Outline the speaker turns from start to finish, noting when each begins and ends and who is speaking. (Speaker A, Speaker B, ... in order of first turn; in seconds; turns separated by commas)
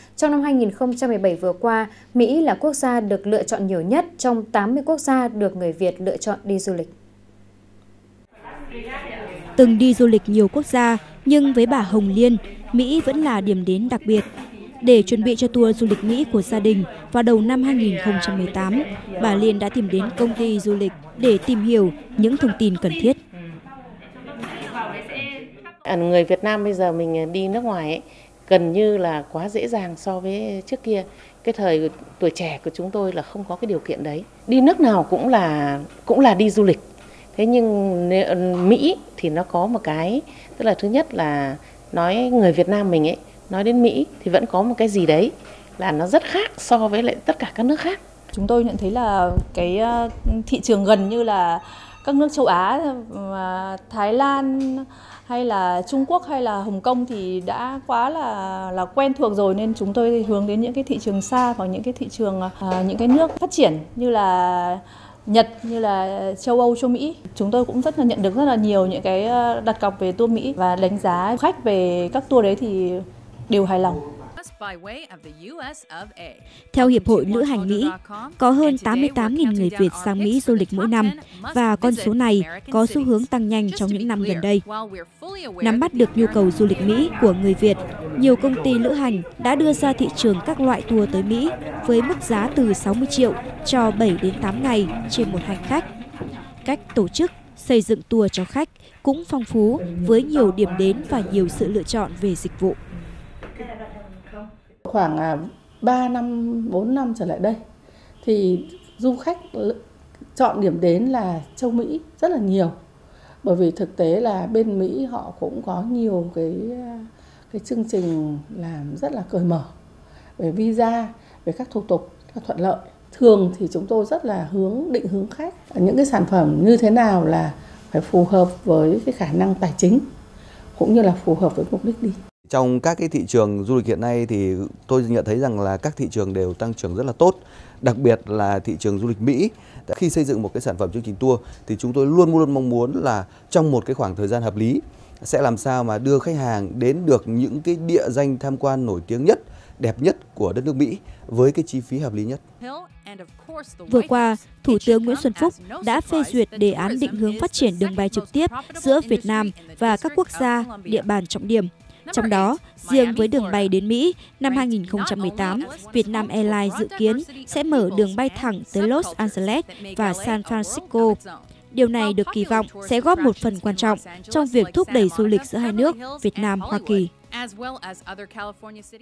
Speaker A: 0.1-6.9, Speaker B: 9.6-14.2, Speaker B: 14.8-23.2, Speaker C: 25.9-28.0, Speaker C: 28.7-30.9, Speaker C: 31.6-32.5, Speaker C: 33.3-36.7, Speaker C: 37.4-40.2, Speaker C: 41.2-41.5, Speaker C: 42.2-45.2, Speaker C: 46.1-46.8, Speaker D: 48.3-74.1, Speaker B: 76.7-84.6, Speaker B: 85.6-95.9, Speaker B: 96.7-102.8, Speaker E: 104.8-107.6, Speaker E: 108.2-109.8, Speaker E: 110.3-112.8, Speaker E: 113.4-119.7, Speaker E: 120.4-130.1, Speaker E: 130.8-132.2, Speaker F: 132.5-152.4, Speaker B: 153.9-171.2, Speaker B: 171.7-177.1